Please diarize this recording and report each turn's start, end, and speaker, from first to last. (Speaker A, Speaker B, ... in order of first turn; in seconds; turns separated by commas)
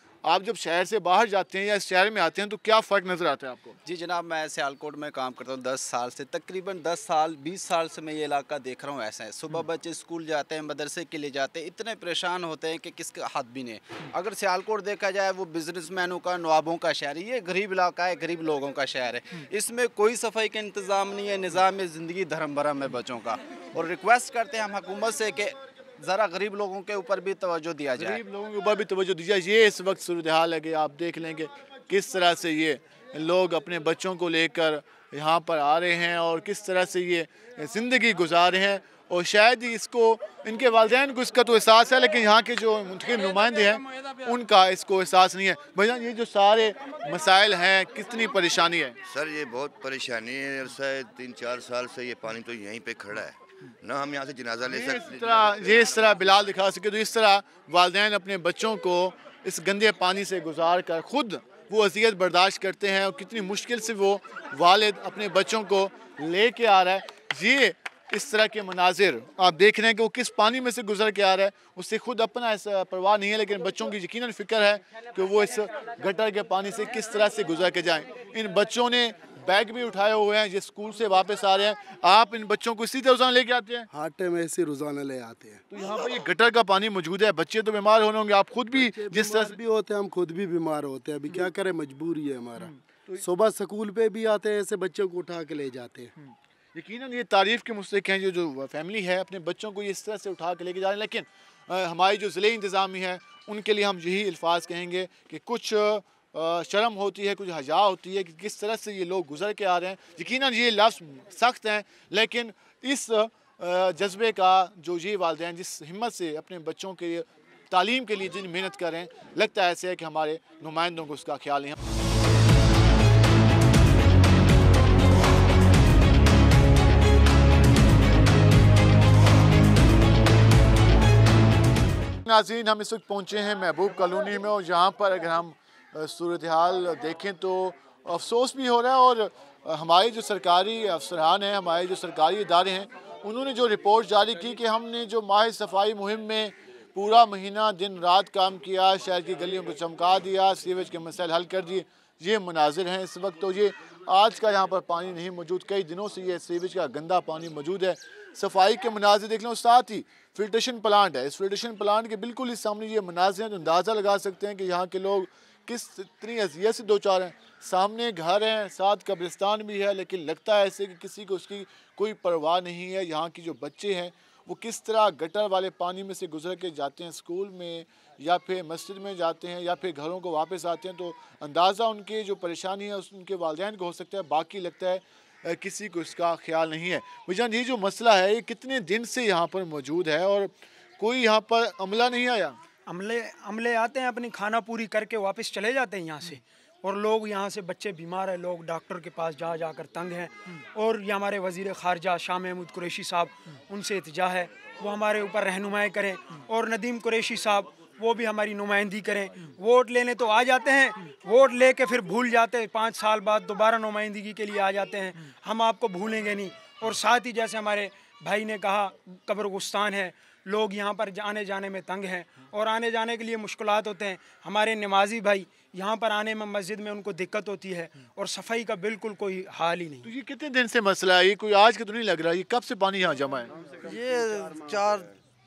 Speaker A: 0.2-3.8, Speaker B: 3.8-28.2, Speaker A: 28.0-49.0, Speaker C: 49.0-55.9, Speaker A: 54.7-83.9, Speaker D: 83.9-85.6, Speaker A: 85.7-89.6, Speaker D: 88.7-96.1, Speaker A: 92.6-93.2, Speaker A: 96.2-121.8, Speaker A: 132.2-192.6, Speaker E: 192.9-230.1, Speaker A: 230.0-233.5, Speaker D: 233.8-235.1